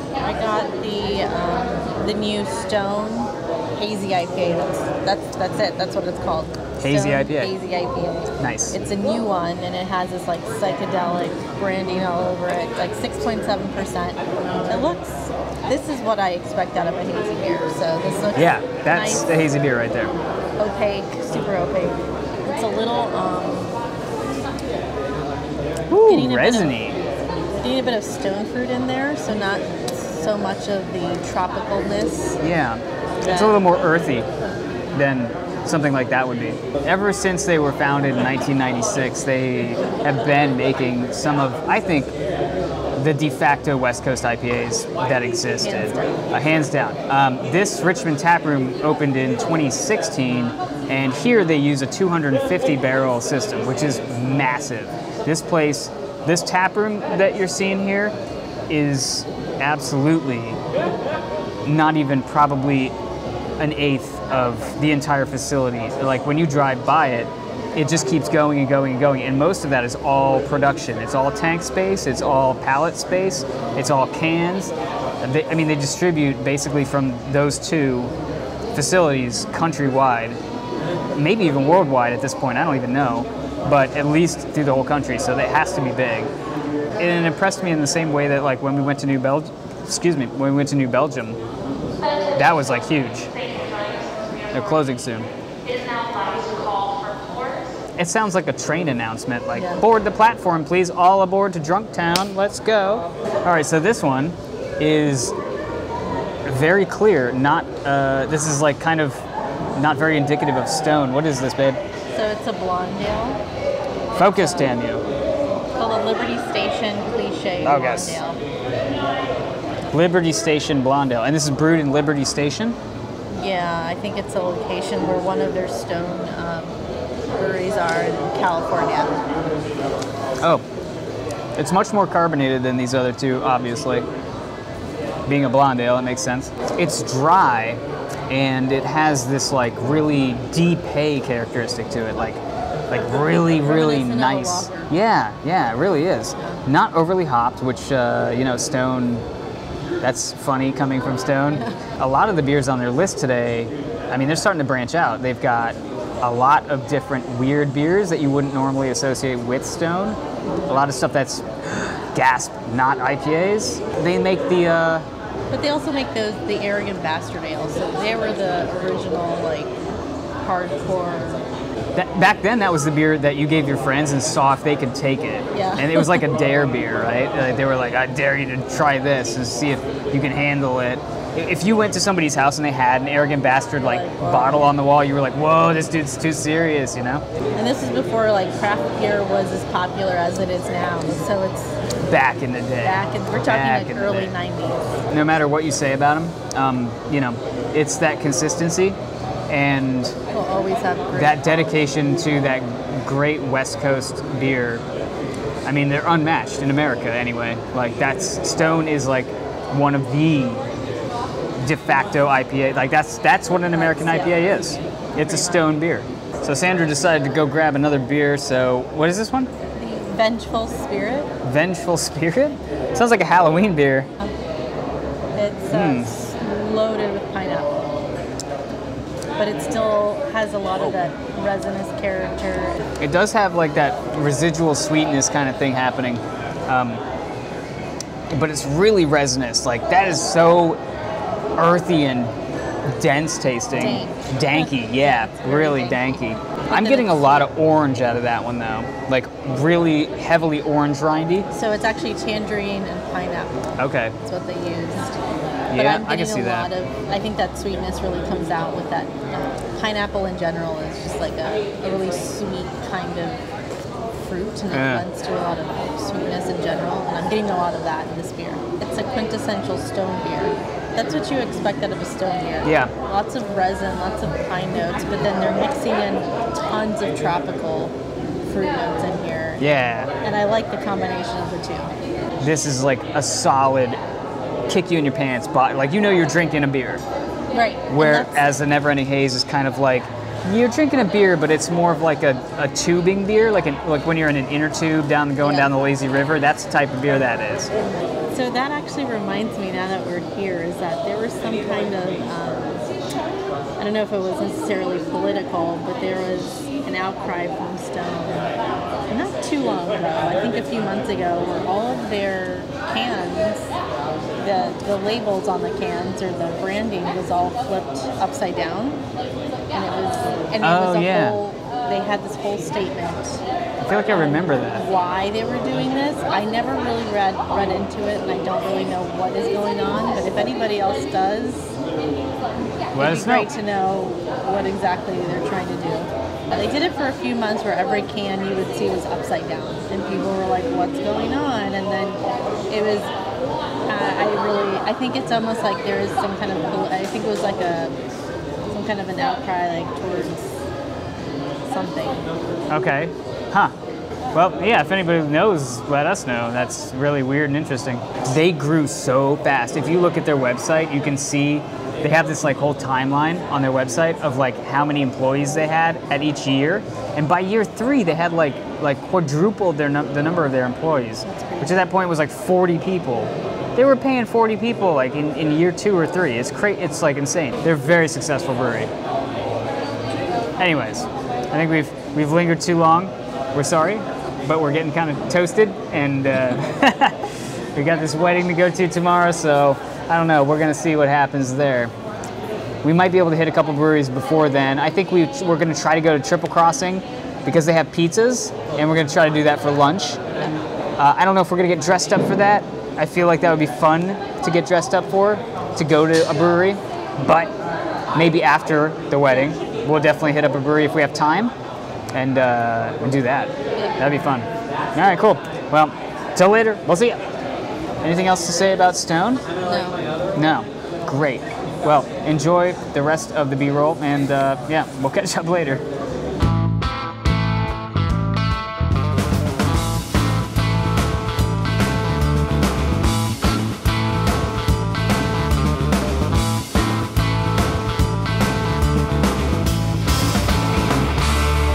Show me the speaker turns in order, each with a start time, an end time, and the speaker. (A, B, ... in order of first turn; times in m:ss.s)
0:00.2-0:19.3 A
0:06.8-0:07.5 B
0:08.4-0:08.8 B
0:18.4-0:20.2 B
0:20.6-0:23.7 A
0:25.9-0:27.0 B
0:26.1-0:26.8 A
0:27.6-0:32.4 A
0:32.4-0:34.3 B
0:33.2-0:33.6 A
0:34.9-0:42.1 B
0:43.0-0:58.2 B
0:45.6-0:46.1 A
0:58.7-1:00.6 B
1:01.6-1:02.9 B
1:03.6-1:18.1 B
1:18.7-1:20.4 B
1:21.2-1:26.3 B
1:27.0-1:31.4 B
1:32.4-1:33.3 B
1:34.5-1:35.3 B
1:38.0-1:45.3 B
1:39.5-1:39.8 A
1:46.4-1:51.8 B
1:52.1-1:53.4 A
1:54.2-1:54.7 A
1:54.2-1:55.0 B
1:55.8-1:58.4 A
1:57.6-1:58.2 B
1:59.9-2:02.8 B
2:03.3-2:06.8 A
2:07.3-2:09.2 A
2:11.6-2:14.1 B
2:15.3-2:29.3 B
2:23.6-2:24.9 A
2:30.0-2:45.1 B
2:31.5-2:31.8 A
2:45.5-2:49.8 A
2:50.4-2:51.4 A
2:52.0-3:07.2 B
2:55.5-2:56.3 A
3:03.8-3:04.8 A
3:07.6-3:11.8 A
3:12.0-3:14.3 B
3:12.8-3:14.9 A
3:15.1-3:19.0 B
3:19.5-3:20.2 B
3:20.3-3:21.5 A
3:21.1-3:24.8 B
3:25.6-3:30.6 B
3:31.6-3:39.5 B
3:33.7-3:35.8 A
3:39.7-3:41.3 A
3:41.4-3:44.1 B
3:45.4-3:47.9 A
3:45.7-3:46.1 B
3:49.4-3:52.8 A
3:53.0-3:57.0 B
3:58.3-4:00.8 B
4:01.6-4:02.3 B
4:02.9-4:11.5 B
4:03.8-4:07.5 A
4:11.5-4:13.7 A
4:13.8-4:14.2 B
4:14.2-4:15.2 A
4:15.7-4:16.7 B
4:15.7-4:23.4 A
4:24.2-4:39.6 A
4:24.7-4:25.1 B
4:32.6-4:32.9 B
4:39.6-4:40.1 B
4:40.2-4:41.9 A
4:42.4-4:44.0 B
4:44.7-4:47.0 B
4:47.5-4:48.5 A
4:47.9-4:57.7 B
4:55.4-4:55.7 A
4:57.8-5:02.8 A
5:03.8-5:08.6 A
5:09.1-5:13.7 A
5:14.4-5:19.0 A
5:19.7-5:23.4 A
5:20.6-5:21.4 B
5:23.8-5:24.9 B
5:24.1-5:31.8 A
5:33.0-5:33.5 B
5:33.0-5:43.1 A
5:43.9-5:48.0 A
5:48.7-5:50.7 A
5:51.6-5:52.2 A
5:52.7-5:53.7 B
5:54.3-6:18.9 B
6:11.2-6:11.8 A
6:20.6-6:31.9 B
6:32.8-6:40.2 B
6:41.0-6:47.5 B
6:48.2-6:51.5 B
6:52.1-6:57.2 B
6:58.0-6:59.5 B
6:59.6-7:00.0 A
7:00.4-7:05.8 B